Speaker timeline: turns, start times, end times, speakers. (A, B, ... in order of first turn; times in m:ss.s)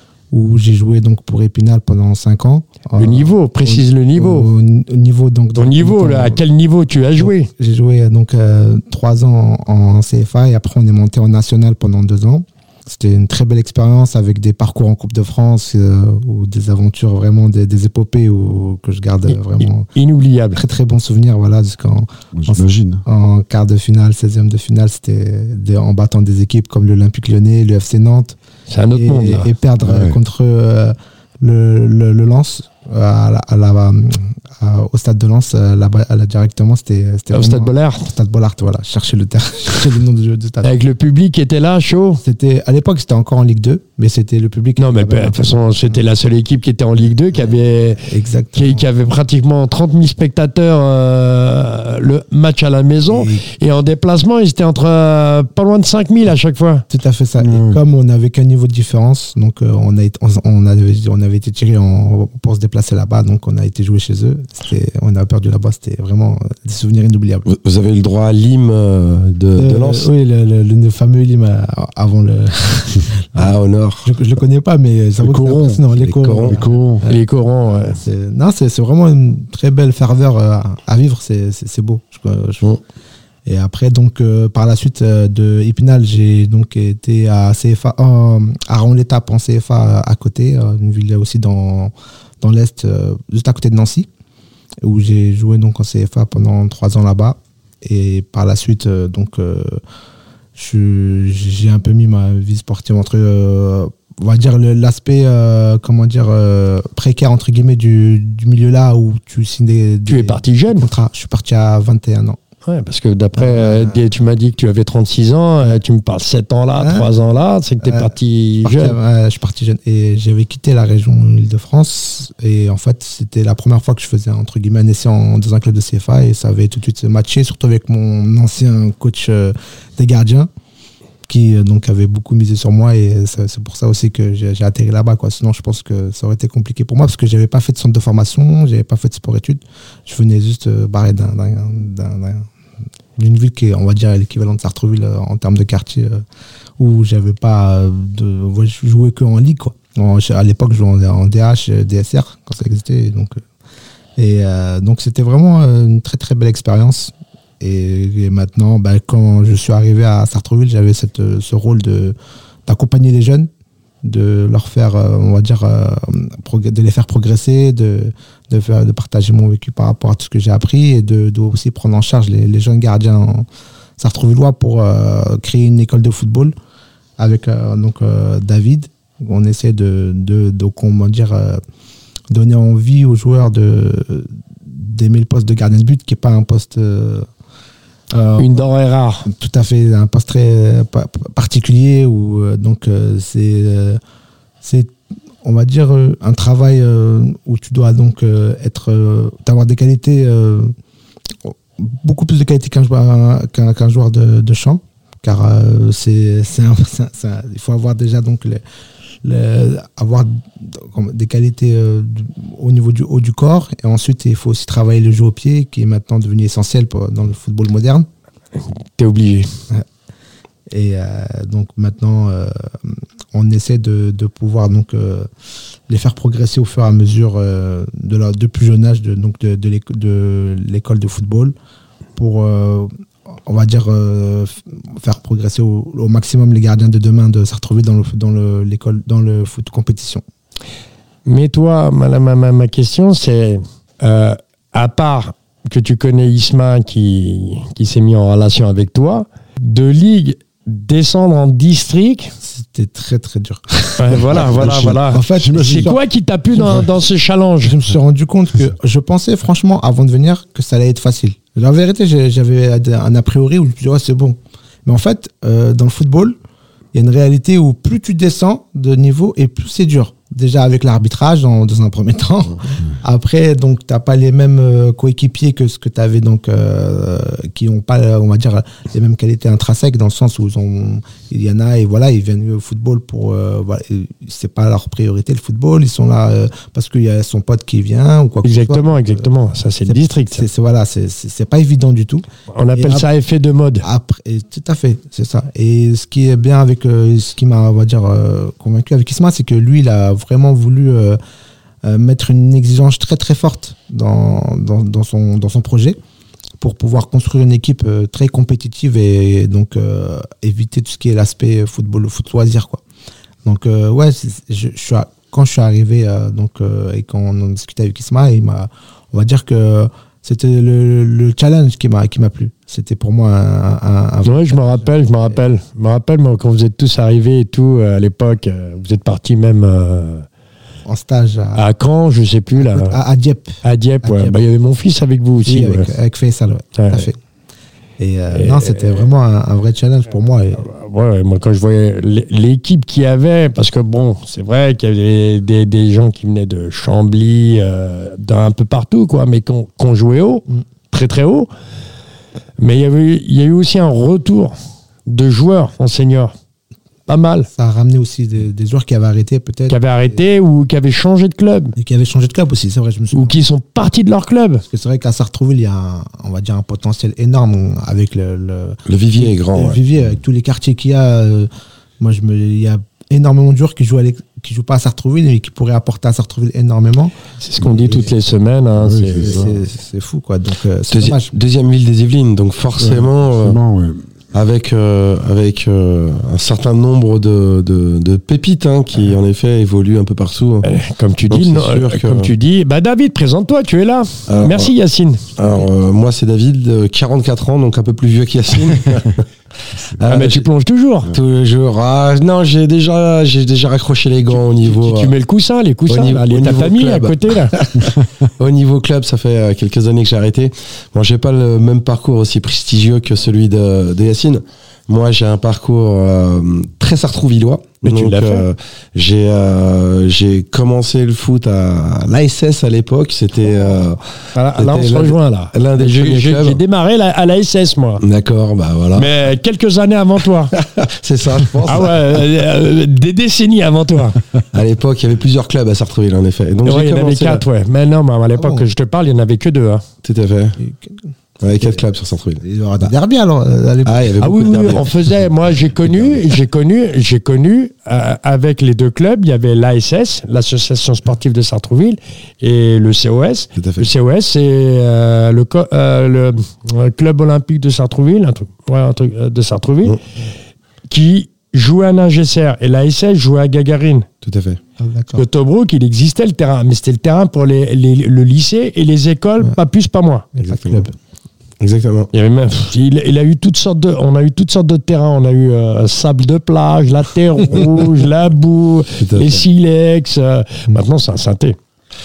0:00.3-0:06.4 A
0:03.0-0:04.5 B
0:05.5-0:07.5 B
0:07.2-0:19.9 A
0:19.3-0:20.6 B
0:20.5-0:28.4 A
0:22.3-0:23.0 C
0:28.7-0:29.5 B
0:28.9-0:40.7 A
0:29.8-0:30.2 C
0:37.3-0:38.1 B
0:40.6-0:42.2 B
0:42.2-0:45.6 A
0:44.8-0:48.0 B
0:48.0-0:48.8 A
0:48.5-0:56.8 B
0:53.1-0:53.4 A
0:56.9-1:07.5 A
0:57.4-0:57.8 C
1:07.5-1:10.1 D
1:09.6-1:13.5 A
1:13.4-1:14.1 D
1:14.0-1:17.2 A
1:15.2-1:15.9 C
1:16.0-1:16.6 D
1:16.4-1:17.0 C
1:17.1-1:18.0 B
1:17.8-1:22.7 A
1:23.5-1:34.1 A
1:34.8-1:39.8 A
1:40.6-1:52.4 A
1:50.1-1:50.9 B
1:52.6-1:59.0 B
1:53.4-1:54.0 A
1:56.8-1:57.2 A
1:57.8-1:58.1 A
1:58.6-2:10.5 A
2:11.3-2:22.5 A
2:23.2-2:26.2 A
2:26.8-2:33.4 A
2:34.2-2:42.2 A
2:42.7-2:43.5 A
2:44.0-2:53.5 A
2:54.0-2:56.5 A
2:57.2-3:01.6 A
3:02.3-3:07.3 A
3:08.1-3:08.6 A
3:08.4-3:09.3 B
3:09.3-3:14.0 A
3:14.6-3:20.7 A
3:21.4-3:28.6 A
3:29.2-3:38.1 A
3:39.0-3:39.5 B
3:40.7-3:45.3 A
3:45.9-3:51.5 A
3:52.2-3:52.9 A
3:53.5-4:00.2 A
4:01.2-4:12.3 B
4:12.4-4:16.0 A
4:14.0-4:17.8 B
4:15.3-4:16.0 C
4:16.5-4:16.9 A
4:17.6-4:26.4 A
4:26.9-4:49.3 A
4:48.4-4:50.4 B
4:49.9-4:53.1 A
4:52.5-4:53.9 B
4:53.8-5:01.2 A
5:01.8-5:06.0 A
5:06.6-5:12.8 A
5:13.4-5:25.4 A
5:24.2-5:30.3 B
5:30.9-5:31.6 A
5:31.6-5:33.0 B
5:32.6-5:34.4 A
5:33.6-5:35.9 B
5:35.4-5:37.2 A
5:36.8-5:37.1 B
5:38.0-5:40.6 A
5:38.3-5:39.1 B
5:40.6-5:51.5 B
5:52.6-5:56.3 B
5:57.1-5:57.5 B
5:57.5-6:00.2 A
5:59.7-6:01.8 B
6:01.8-6:03.4 A
6:03.1-6:04.6 B
6:04.7-6:17.1 A
6:08.9-6:09.8 D
6:17.4-6:19.4 B
6:18.8-6:19.6 C
6:19.2-6:21.3 A
6:20.9-6:23.6 D
6:22.8-6:24.0 C
6:24.3-6:30.7 D
6:30.6-6:35.3 B
6:31.3-6:32.3 D
6:34.3-6:34.7 D
6:35.4-6:39.2 D
6:39.9-6:40.4 D
6:40.0-6:41.1 B
6:41.1-6:45.1 D
6:44.5-6:47.6 B
6:45.9-7:04.0 D
6:57.8-6:58.4 B
7:04.4-7:08.0 B
7:04.6-7:06.6 D
7:08.0-7:09.1 D
7:08.9-7:10.5 B
7:10.5-7:12.0 D
7:11.6-7:14.2 B
7:14.5-7:17.4 D
7:16.6-7:19.8 B
7:18.4-7:18.7 A
7:20.0-7:20.6 D
7:20.6-7:21.8 A
7:21.4-7:22.9 D
7:22.4-7:24.1 A
7:23.8-7:24.9 D
7:24.2-7:40.0 B
7:25.8-7:26.1 D
7:33.6-7:33.9 D
7:40.9-7:44.1 B
7:44.2-7:44.6 D
7:44.8-7:45.2 A
7:45.2-7:50.3 B
7:50.4-7:50.9 A
7:50.4-7:50.8 D
7:51.6-7:52.1 D
7:52.1-8:01.6 B
7:59.0-7:59.4 D